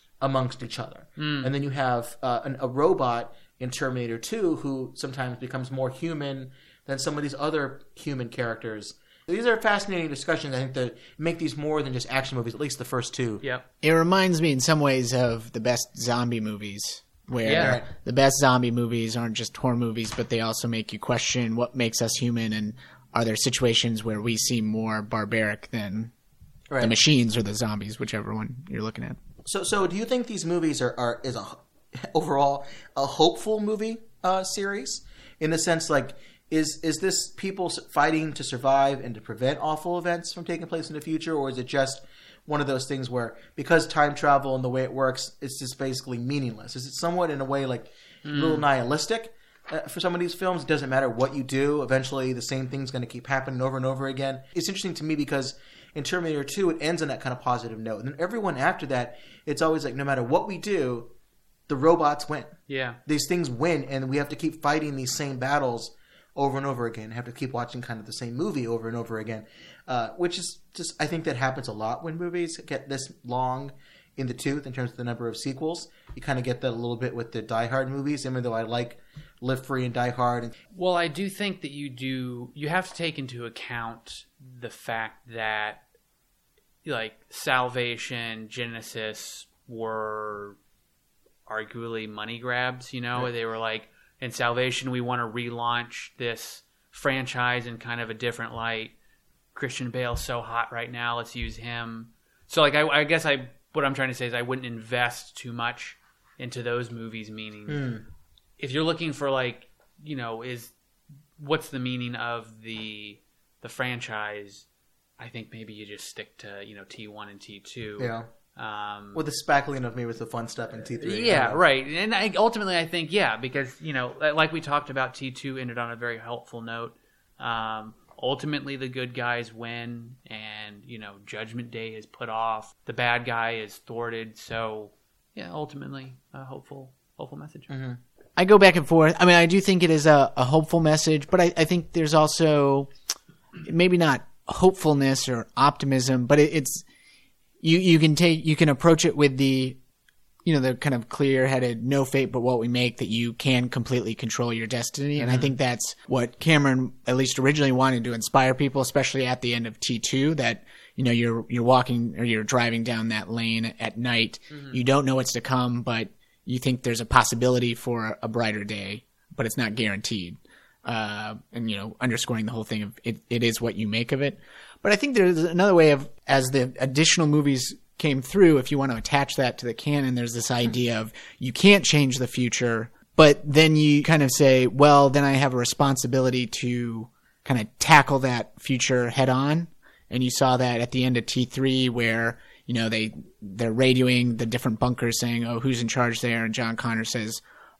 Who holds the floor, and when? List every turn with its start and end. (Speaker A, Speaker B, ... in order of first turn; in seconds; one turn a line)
Speaker A: 0.2-13.4
Speaker B: 1.2-1.5
Speaker C: 13.8-26.1
Speaker B: 17.4-17.8
Speaker A: 17.4-17.9
Speaker A: 26.7-27.0
Speaker C: 26.8-29.2
Speaker A: 29.4-61.1
Speaker B: 48.3-48.6
Speaker A: 61.7-80.6
Speaker B: 62.7-63.0
Speaker B: 80.7-85.8
Speaker B: 86.8-90.6
Speaker B: 91.5-98.9
Speaker B: 99.5-107.9
Speaker A: 107.7-108.0
Speaker B: 108.6-110.7
Speaker B: 111.4-114.7
Speaker B: 115.2-119.2
Speaker A: 118.0-118.3
Speaker A: 119.1-121.6
Speaker B: 121.0-137.7
Speaker A: 137.7-138.0
Speaker C: 138.4-142.9
Speaker C: 143.6-146.8
Speaker C: 147.6-149.8
Speaker C: 150.4-197.4
Speaker B: 164.5-164.8